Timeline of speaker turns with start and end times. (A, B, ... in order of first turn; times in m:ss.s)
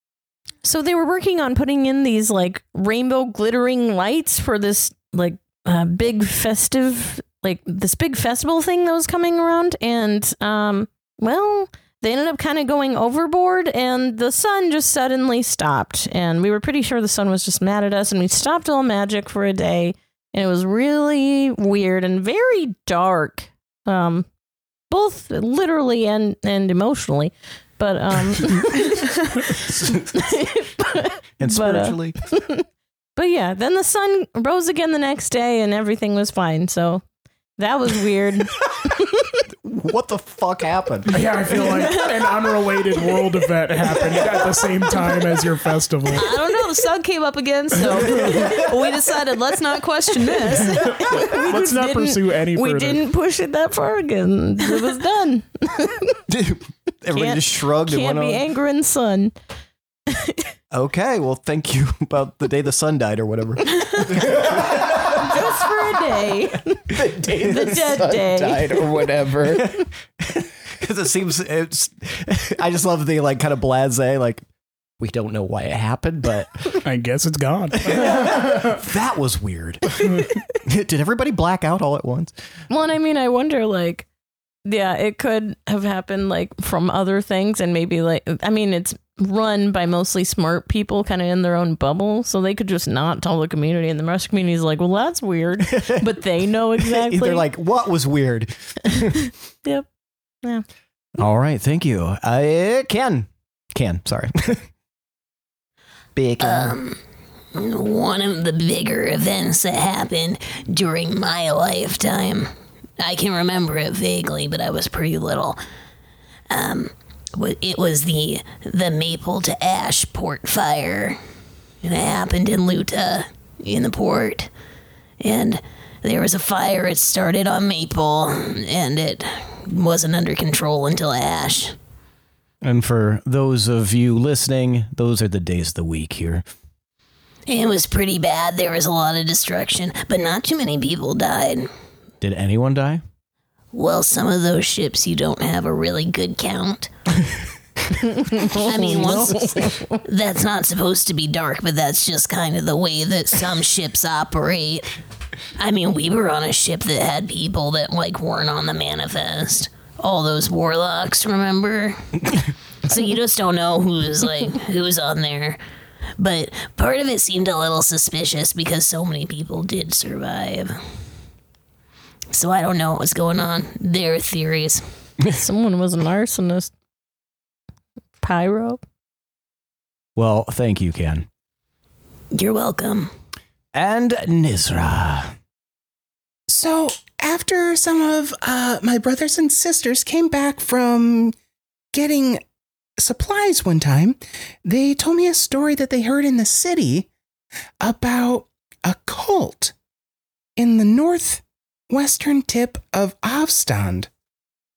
0:00.6-0:24.3 A
0:24.9-0:37.0 A
0:29.5-0:30.2 B
0:31.4-0:32.2 B
0:37.6-0:39.4 A
0:39.6-0:41.7 B
0:41.1-0:46.4 C
0:41.7-0:42.2 A
0:46.1-0:51.4 D
0:46.4-0:46.8 A
0:48.1-0:48.4 C
0:50.5-0:53.0 C
0:51.0-0:56.2 A
0:56.3-0:58.4 B
0:57.1-0:59.3 A
1:00.1-1:00.5 A
1:00.7-1:05.4 B
1:05.0-1:09.0 A
1:06.9-1:09.7 E
1:09.5-1:14.4 B
1:15.0-1:16.7 B
1:16.8-1:18.8 C
1:17.8-1:22.3 B
1:22.7-1:24.1 A
1:24.6-1:37.5 A
1:35.7-1:36.0 B
1:36.8-1:39.2 B
1:39.0-1:39.9 A
1:41.2-1:44.7 B
1:46.2-1:46.8 B
1:46.4-1:47.0 F
1:47.5-1:55.6 F
1:56.5-2:01.2 F
2:01.8-2:04.5 F
2:05.2-2:11.8 F
2:12.6-2:16.4 B
2:17.5-2:21.7 F
2:22.2-2:23.0 B
2:23.7-2:26.9 F
2:28.3-2:30.0 A
2:28.3-2:34.9 F
2:35.6-2:45.6 F
2:46.2-2:50.8 F
2:52.3-2:54.8 F
2:55.3-2:56.7 A
2:58.2-2:58.8 A
3:00.2-3:01.3 B
3:02.3-3:03.1 F
3:03.7-3:05.3 B
3:06.5-3:11.4 E
3:11.9-3:12.4 E
3:13.0-3:17.1 E
3:17.8-3:19.7 E
3:20.6-3:24.1 E